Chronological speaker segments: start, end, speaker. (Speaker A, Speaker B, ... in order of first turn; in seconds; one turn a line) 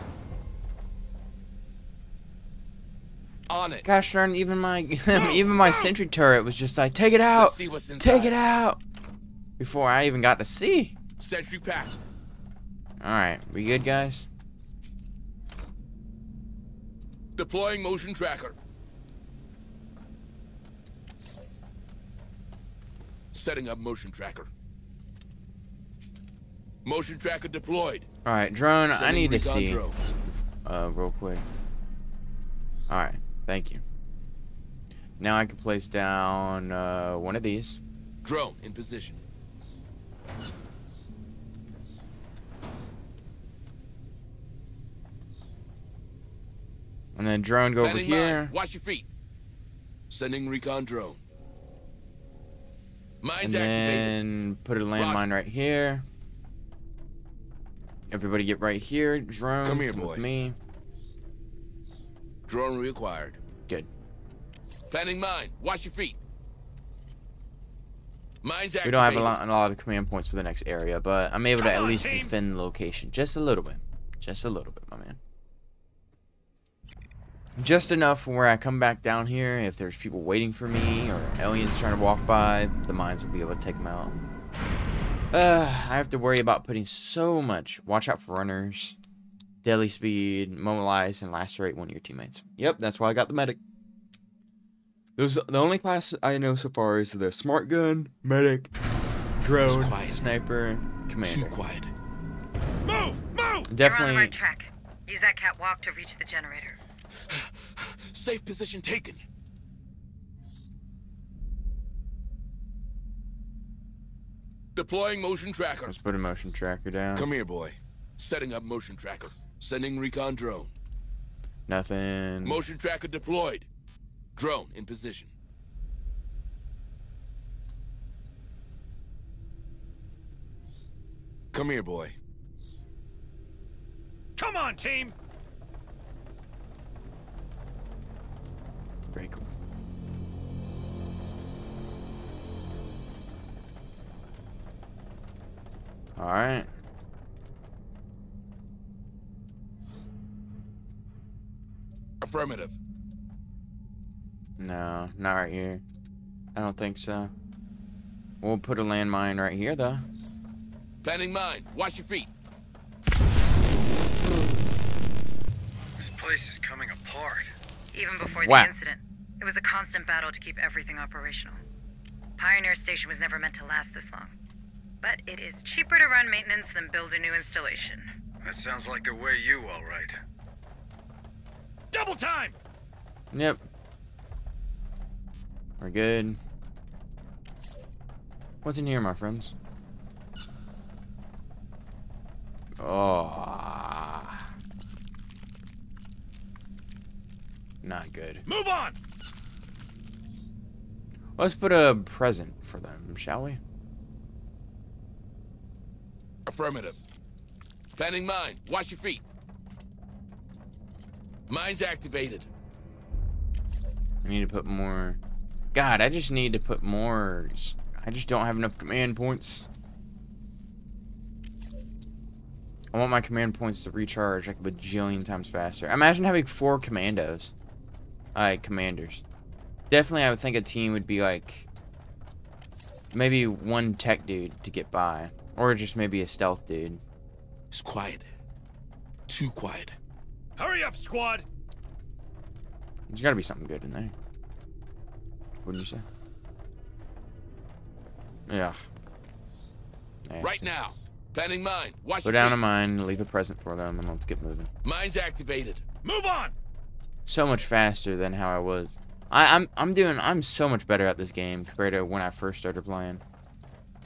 Speaker A: 3.5-3.9
Speaker B: 3.8-8.8
Speaker C: 5.1-5.9
Speaker A: 7.3-8.3
Speaker B: 9.6-11.0
Speaker A: 11.2-12.1
Speaker B: 13.0-14.3
Speaker A: 17.4-18.6
Speaker A: 23.3-24.5
Speaker A: 26.8-28.1
Speaker B: 28.2-29.9
Speaker A: 28.9-30.0
Speaker B: 30.6-31.4
Speaker B: 32.9-33.8
Speaker B: 35.2-37.8
Speaker A: 38.2-39.2
Speaker B: 47.1-48.5
Speaker A: 47.8-49.1
Speaker A: 50.1-51.2
Speaker A: 53.2-54.1
Speaker B: 53.4-56.0
Speaker A: 55.0-55.2
Speaker B: 58.1-60.6
Speaker A: 59.6-60.2
Speaker A: 62.5-63.4
Speaker A: 64.9-66.2
Speaker A: 68.4-69.4
Speaker B: 68.8-75.2
Speaker C: 71.6-72.3
Speaker B: 77.6-84.2
Speaker B: 85.3-89.0
Speaker B: 89.6-93.6
Speaker B: 95.2-98.7
Speaker B: 99.4-101.5
Speaker A: 99.6-100.3
Speaker A: 101.2-101.9
Speaker C: 102.8-103.7
Speaker B: 103.7-104.3
Speaker D: 103.8-106.8
Speaker A: 107.3-109.2
Speaker A: 114.8-115.9
Speaker B: 115.8-117.3
Speaker A: 117.1-120.7
Speaker B: 121.7-122.6
Speaker A: 122.4-123.7
Speaker A: 124.3-125.3
Speaker A: 131.5-132.1
Speaker C: 134.4-135.1
Speaker B: 139.1-139.5
Speaker B: 146.2-146.7
Speaker A: 152.2-152.8
Speaker B: 154.6-155.8
Speaker B: 156.5-157.3
Speaker B: 158.4-160.1
Speaker A: 161.0-162.3
Speaker E: 166.0-167.5
Speaker D: 167.9-171.6
Speaker B: 168.4-168.7
Speaker D: 172.4-174.3
Speaker D: 175.0-178.1
Speaker E: 178.4-180.2
Speaker C: 181.9-182.6
Speaker B: 183.3-183.6
Speaker B: 185.8-186.4
Speaker B: 188.6-189.5
Speaker B: 192.8-194.5
Speaker B: 197.8-198.4
Speaker C: 198.4-199.0
Speaker B: 201.4-203.6
Speaker A: 206.4-207.0
Speaker A: 208.0-209.2
Speaker A: 211.5-212.5
Speaker B: 214.2-215.2
Speaker B: 215.7-219.7
Speaker B: 222.9-227.5
Speaker B: 228.3-229.2
Speaker B: 229.9-231.7
Speaker B: 233.1-237.0
Speaker A: 237.7-238.3
Speaker A: 239.3-239.9
Speaker C: 240.6-241.4
Speaker B: 243.1-244.1
Speaker B: 245.6-246.1
Speaker B: 248.5-248.8
Speaker B: 250.2-250.7
Speaker A: 250.4-252.6
Speaker B: 252.2-254.7
Speaker A: 254.8-255.8
Speaker C: 256.0-256.5
Speaker B: 257.2-263.2